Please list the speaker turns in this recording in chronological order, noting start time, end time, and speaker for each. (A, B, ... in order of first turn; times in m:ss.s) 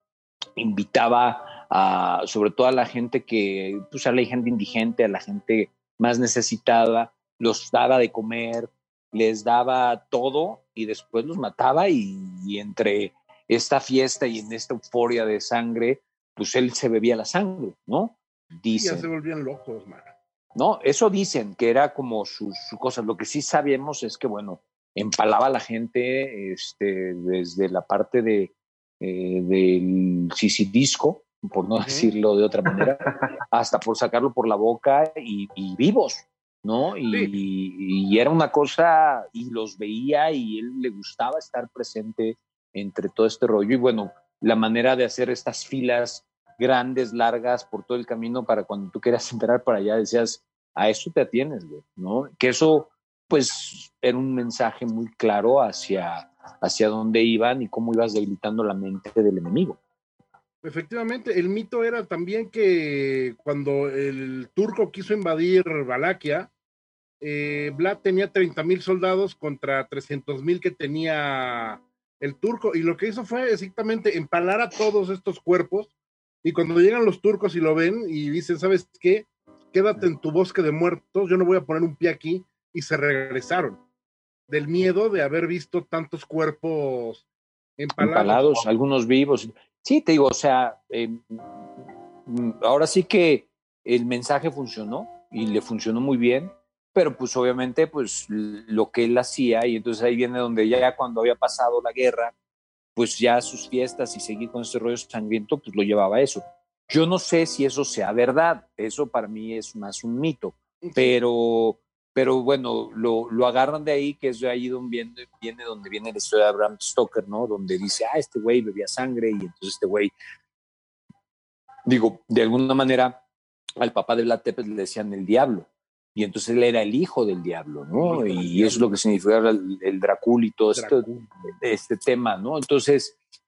0:00.6-0:19.1 A
0:18.7-0:20.1 B
0:20.6-0:59.8 A
1:00.6-1:06.5 B
1:07.2-1:15.9 B
1:16.4-1:23.8 B
1:24.5-1:27.2 B
1:27.8-1:28.6 B
1:28.0-1:31.6 A
1:32.3-1:42.3 A
1:43.0-2:00.1 A
1:50.8-1:51.2 B
2:01.9-2:03.2 A
2:03.8-2:13.2 A
2:07.9-2:08.9 B
2:10.8-2:11.4 B